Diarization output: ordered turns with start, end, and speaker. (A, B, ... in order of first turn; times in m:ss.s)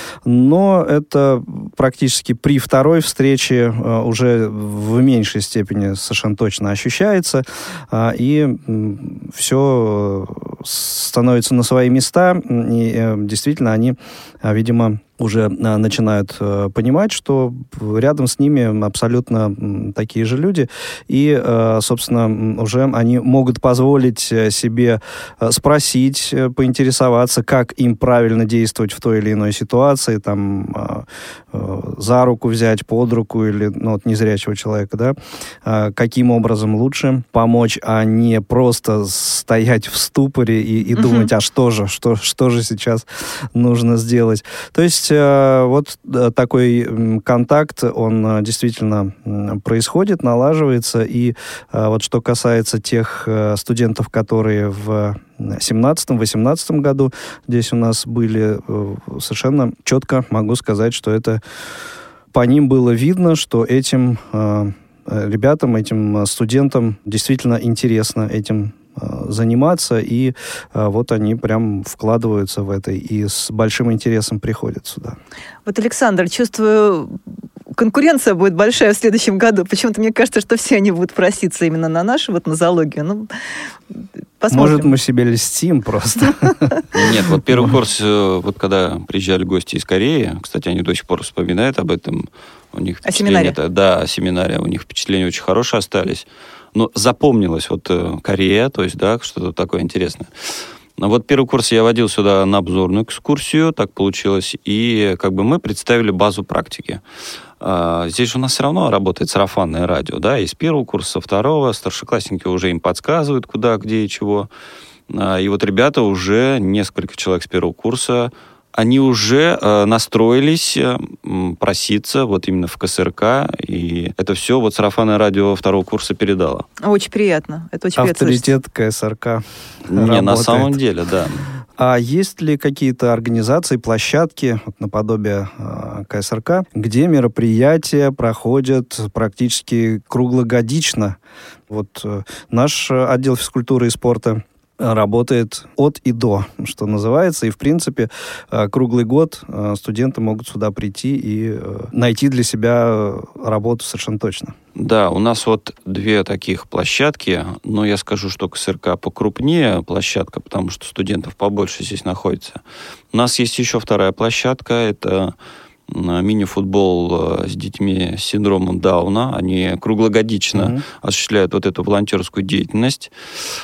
0:00.2-1:01.4 A
0:40.9-0:41.3 B
1:02.3-1:15.2 A
1:15.6-1:17.2 B
1:17.7-1:23.3 B
1:24.4-1:24.9 B
1:24.5-1:26.7 A
1:26.9-1:40.3 C
1:33.0-1:33.6 B
1:41.0-1:47.0 C
1:47.6-1:54.5 C
1:55.1-2:06.6 C
2:06.8-2:08.5 B
2:08.0-2:10.8 A
2:09.9-2:11.4 C
2:11.8-2:21.2 A
2:21.7-2:34.5 A
2:34.8-2:42.6 C
2:43.1-2:45.3 C
2:45.9-2:53.1 C
2:50.5-2:50.8 A